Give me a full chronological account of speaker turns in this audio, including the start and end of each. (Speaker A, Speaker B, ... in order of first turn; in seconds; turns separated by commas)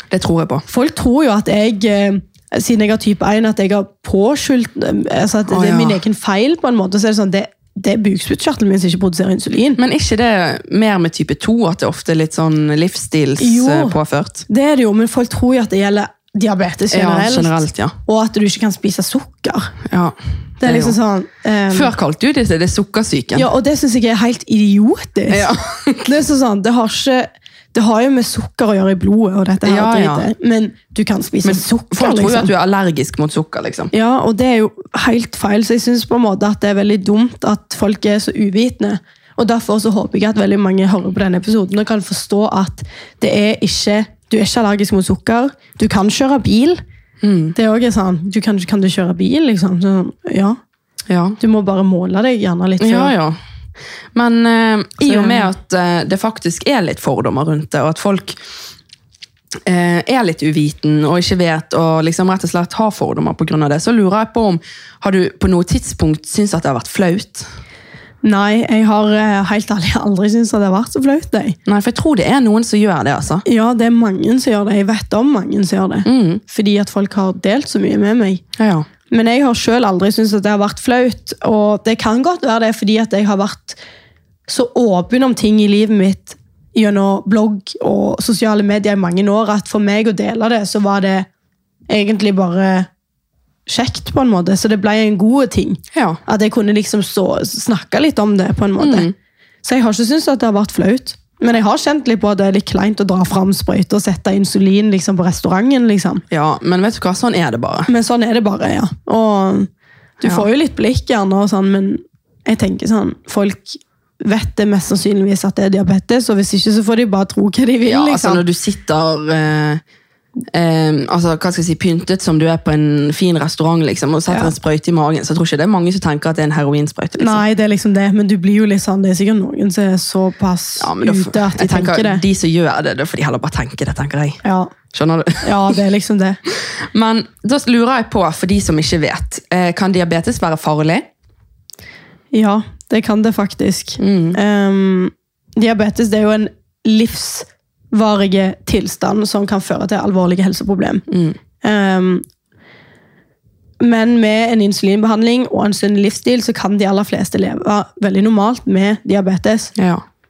Speaker A: 0.1-0.7, Speaker B: 0.7-9.8, Speaker A: 5.5-6.0, Speaker A: 9.8-14.4, Speaker B: 13.4-14.0, Speaker B: 14.5-19.7, Speaker A: 16.9-18.0, Speaker A: 19.9-21.0, Speaker B: 20.6-21.9, Speaker A: 21.7-23.5, Speaker B: 23.4-25.5, Speaker A: 25.3-26.1, Speaker B: 26.0-32.5, Speaker A: 29.6-30.3, Speaker A: 31.4-33.9, Speaker B: 33.9-46.8, Speaker A: 47.2-47.6, Speaker B: 47.5-50.6, Speaker A: 51.1-51.4, Speaker B: 51.4-53.1, Speaker A: 52.8-53.4, Speaker A: 54.1-58.4, Speaker B: 55.0-55.5, Speaker A: 59.7-67.5, Speaker B: 68.2-71.6, Speaker A: 71.7-73.4, Speaker B: 73.5-78.4, Speaker A: 76.0-76.4, Speaker A: 78.6-78.9, Speaker B: 79.1-83.8, Speaker B: 84.5-91.3, Speaker B: 91.9-92.9, Speaker B: 93.7-99.1, Speaker A: 95.9-96.2, Speaker A: 98.8-99.1, Speaker B: 99.6-106.2, Speaker A: 106.3-107.9, Speaker B: 107.9-118.4, Speaker A: 117.9-119.8, Speaker A: 120.5-127.4, Speaker B: 127.2-132.2, Speaker A: 130.8-135.8, Speaker B: 134.4-134.7, Speaker B: 135.4-136.4, Speaker A: 136.6-141.1, Speaker B: 142.3-151.1, Speaker A: 144.0-144.4, Speaker A: 151.1-151.4, Speaker B: 151.6-152.2, Speaker B: 153.8-159.7, Speaker A: 159.8-160.0